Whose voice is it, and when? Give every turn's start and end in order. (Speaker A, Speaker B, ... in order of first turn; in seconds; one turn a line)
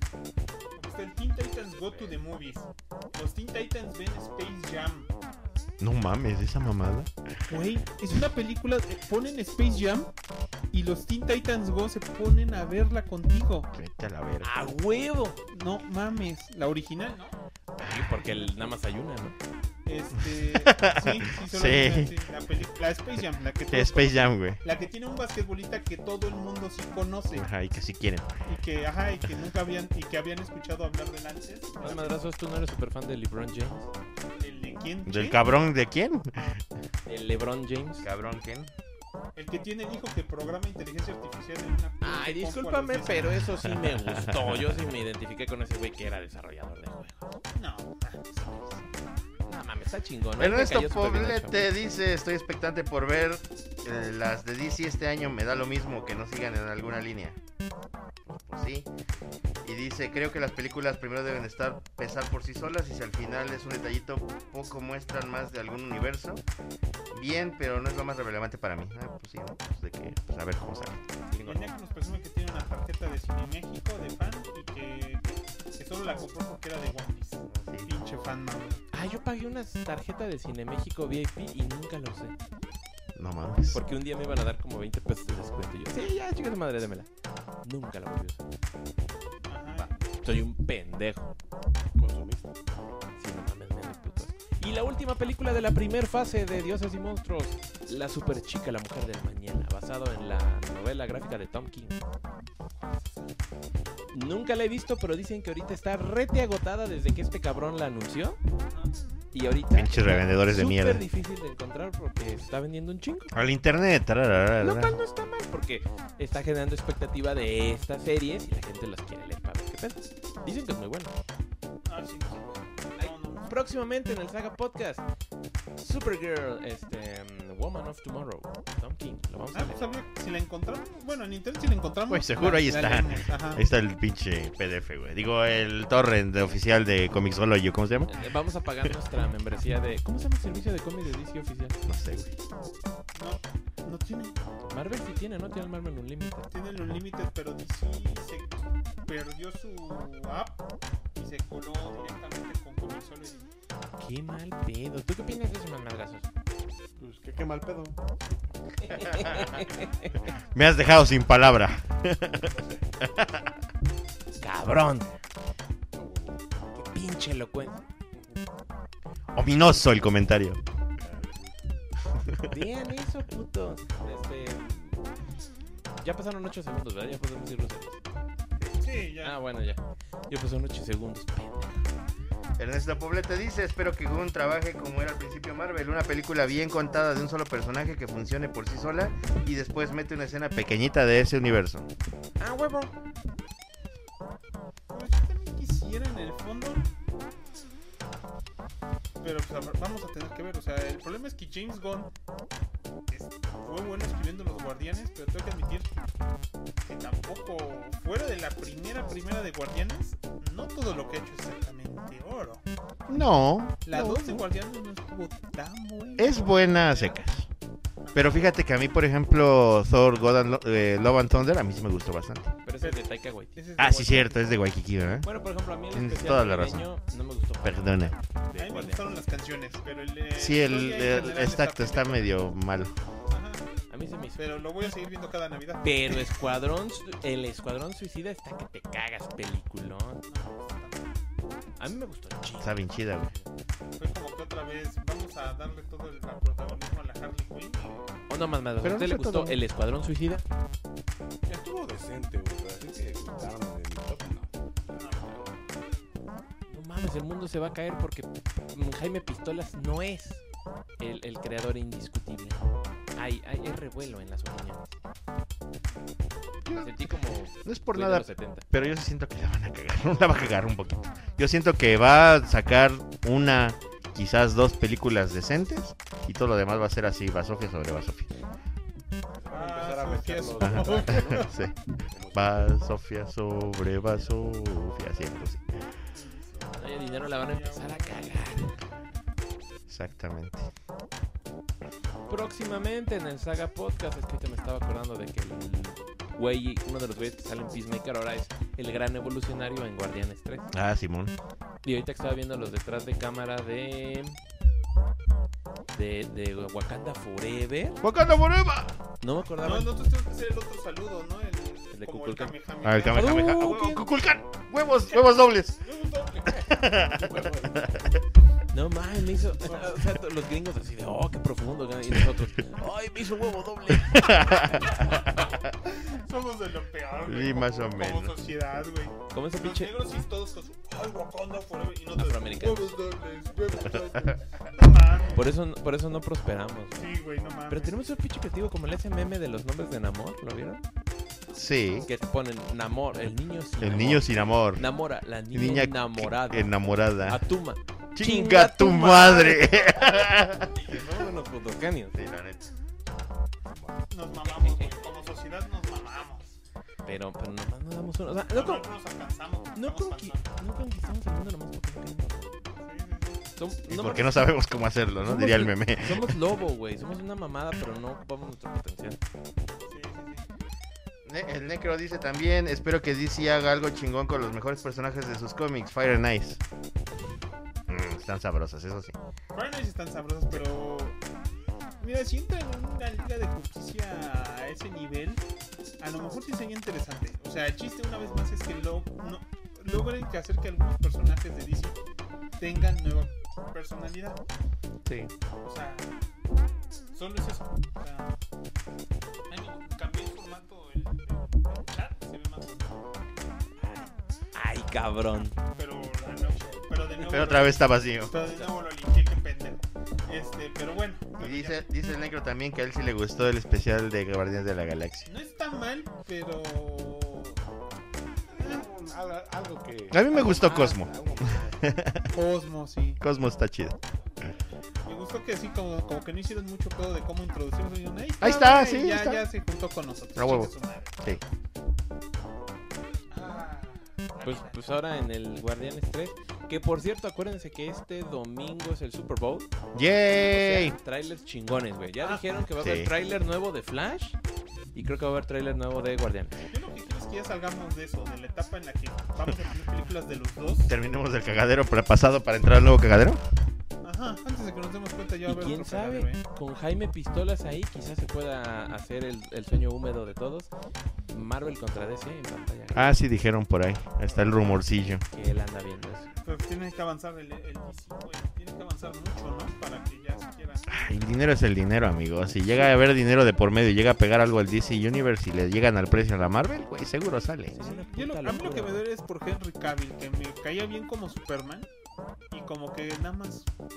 Speaker A: 0.8-5.1
Speaker B: 5.8-7.1
Speaker A: 7.5-10.1
Speaker A: 10.7-13.7
Speaker B: 13.7-14.5
Speaker C: 14.4-15.4
Speaker A: 15.5-17.4
Speaker C: 17.8-19.4
Speaker B: 17.8-18.2
Speaker A: 19.9-27.5
Speaker B: 20.6-22.1
Speaker B: 23.7-24.6
Speaker B: 27.3-28.3
Speaker A: 28.4-32.2
Speaker C: 31.8-33.9
Speaker A: 34.3-35.4
Speaker B: 35.1-36.6
Speaker C: 37.1-38.1
Speaker B: 38.0-38.7
Speaker A: 39.4-43.5
Speaker C: 42.0-47.4
Speaker B: 43.9-44.8
Speaker A: 47.5-48.9
Speaker C: 49.5-51.7
Speaker B: 50.4-57.4
Speaker B: 58.3-58.9
Speaker B: 59.6-66.4
Speaker B: 67.1-71.6
Speaker A: 71.4-78.8
Speaker B: 77.5-77.9
Speaker C: 78.9-82.3
Speaker B: 83.2-83.8
Speaker C: 83.7-87.1
Speaker C: 87.6-88.4
Speaker A: 89.5-89.9
Speaker C: 89.8-91.3
Speaker D: 92.0-92.5
Speaker C: 93.2-102.0
Speaker A: 102.8-103.3
Speaker C: 104.1-108.4
Speaker C: 109.3-113.3
Speaker B: 109.7-111.0
Speaker B: 113.3-115.0
Speaker C: 114.6-121.1
Speaker A: 121.8-123.5
Speaker C: 123.0-125.0
Speaker C: 125.8-129.8
Speaker A: 129.5-133.6
Speaker B: 132.1-138.2
Speaker C: 138.1-141.8
Speaker B: 141.8-142.3
Speaker A: 143.1-144.4
Speaker C: 144.7-146.5
Speaker A: 146.5-150.6
Speaker A: 151.1-153.5
Speaker C: 154.0-156.3
Speaker D: 157.0-158.0
Speaker C: 158.8-160.1
Speaker D: 158.9-159.4
Speaker B: 160.5-163.4
Speaker D: 162.4-163.3
Speaker C: 164.4-165.1
Speaker D: 165.9-166.4
Speaker C: 166.7-167.9
Speaker D: 168.1-168.4
Speaker B: 169.3-170.6
Speaker D: 171.0-171.7
Speaker B: 172.2-172.5
Speaker C: 172.5-175.0
Speaker C: 176.0-178.0
Speaker A: 178.7-179.4
Speaker C: 179.2-181.9
Speaker B: 182.6-191.9
Speaker C: 192.4-192.9
Speaker A: 194.9-196.9
Speaker A: 199.2-202.1
Speaker A: 203.1-205.9
Speaker A: 206.8-212.6
Speaker B: 213.1-214.4
Speaker A: 213.8-217.2
Speaker B: 216.2-217.5
Speaker A: 218.1-218.4
Speaker B: 218.1-222.5
Speaker C: 222.6-223.6
Speaker A: 223.6-224.4
Speaker B: 223.8-225.3
Speaker C: 225.2-229.1
Speaker B: 225.9-226.9
Speaker B: 227.6-228.1
Speaker A: 228.6-232.5
Speaker B: 230.4-232.9
Speaker A: 233.3-233.6
Speaker C: 233.9-234.4
Speaker A: 234.4-236.4
Speaker C: 235.8-240.2
Speaker A: 240.3-241.1
Speaker C: 241.8-243.4
Speaker B: 242.6-243.3
Speaker A: 244.0-248.1
Speaker C: 248.3-250.4
Speaker B: 248.8-249.6
Speaker D: 251.5-255.3
Speaker A: 254.9-255.4
Speaker C: 256.7-260.4
Speaker C: 261.0-262.6
Speaker C: 263.1-264.9
Speaker B: 266.7-267.1
Speaker C: 266.7-268.7
Speaker B: 267.6-278.3
Speaker D: 279.3-281.5
Speaker A: 279.5-281.5
Speaker B: 280.6-281.8
Speaker D: 282.1-282.8
Speaker B: 282.3-285.8
Speaker A: 286.1-288.8
Speaker C: 286.8-288.8
Speaker B: 289.9-290.7
Speaker C: 292.3-300.7
Speaker B: 300.7-301.3
Speaker C: 301.8-304.4
Speaker C: 305.9-308.0
Speaker B: 308.0-308.9
Speaker C: 309.2-309.9
Speaker A: 309.6-313.5
Speaker C: 311.9-312.5
Speaker B: 312.8-315.8
Speaker C: 313.1-314.1
Speaker A: 315.1-316.7
Speaker B: 316.5-318.2
Speaker D: 316.6-317.9
Speaker C: 318.7-324.8
Speaker A: 319.7-320.0
Speaker B: 323.9-325.7
Speaker A: 325.8-335.4
Speaker B: 327.3-328.4
Speaker C: 329.3-329.9
Speaker C: 332.2-332.9
Speaker C: 335.4-337.1
Speaker A: 336.9-338.1
Speaker C: 337.7-340.8
Speaker B: 341.6-342.1
Speaker C: 342.1-350.0
Speaker B: 343.8-344.8
Speaker B: 345.5-347.4
Speaker B: 348.1-350.8
Speaker C: 350.5-352.2
Speaker B: 352.1-352.7
Speaker A: 354.1-356.6
Speaker C: 354.4-355.2
Speaker C: 357.1-358.9
Speaker A: 358.5-360.4
Speaker C: 359.8-362.5
Speaker A: 362.8-363.4
Speaker C: 363.6-364.5
Speaker B: 363.9-366.4
Speaker C: 365.2-369.2
Speaker A: 369.9-370.4
Speaker B: 371.2-376.6
Speaker B: 377.9-379.1
Speaker A: 379.5-381.2
Speaker A: 382.0-385.4
Speaker A: 386.0-392.0
Speaker A: 392.6-394.4
Speaker C: 395.1-395.3
Speaker A: 395.6-396.1
Speaker A: 397.1-398.4
Speaker A: 399.5-403.1
Speaker C: 404.5-405.6
Speaker A: 405.8-411.9
Speaker D: 406.2-406.8
Speaker B: 407.2-408.3
Speaker B: 411.4-415.3
Speaker A: 415.3-417.6
Speaker D: 418.5-421.9
Speaker A: 418.6-418.9
Speaker B: 420.1-422.3
Speaker A: 422.3-423.2
Speaker B: 423.2-423.9
Speaker A: 425.1-431.4
Speaker B: 428.4-429.4
Speaker B: 430.4-431.4
Speaker A: 433.3-435.0
Speaker C: 434.4-439.7
Speaker B: 439.9-440.9
Speaker C: 440.4-444.4
Speaker A: 442.2-442.5
Speaker B: 442.8-443.1
Speaker C: 444.9-446.6
Speaker A: 446.7-450.9
Speaker B: 450.9-453.4
Speaker A: 454.0-456.4
Speaker C: 455.4-460.7
Speaker C: 461.3-463.2
Speaker B: 462.9-465.2
Speaker D: 464.3-464.7
Speaker C: 465.3-466.3
Speaker A: 466.4-471.4
Speaker B: 470.9-477.8
Speaker C: 477.7-479.0
Speaker A: 477.8-481.9
Speaker A: 482.5-483.7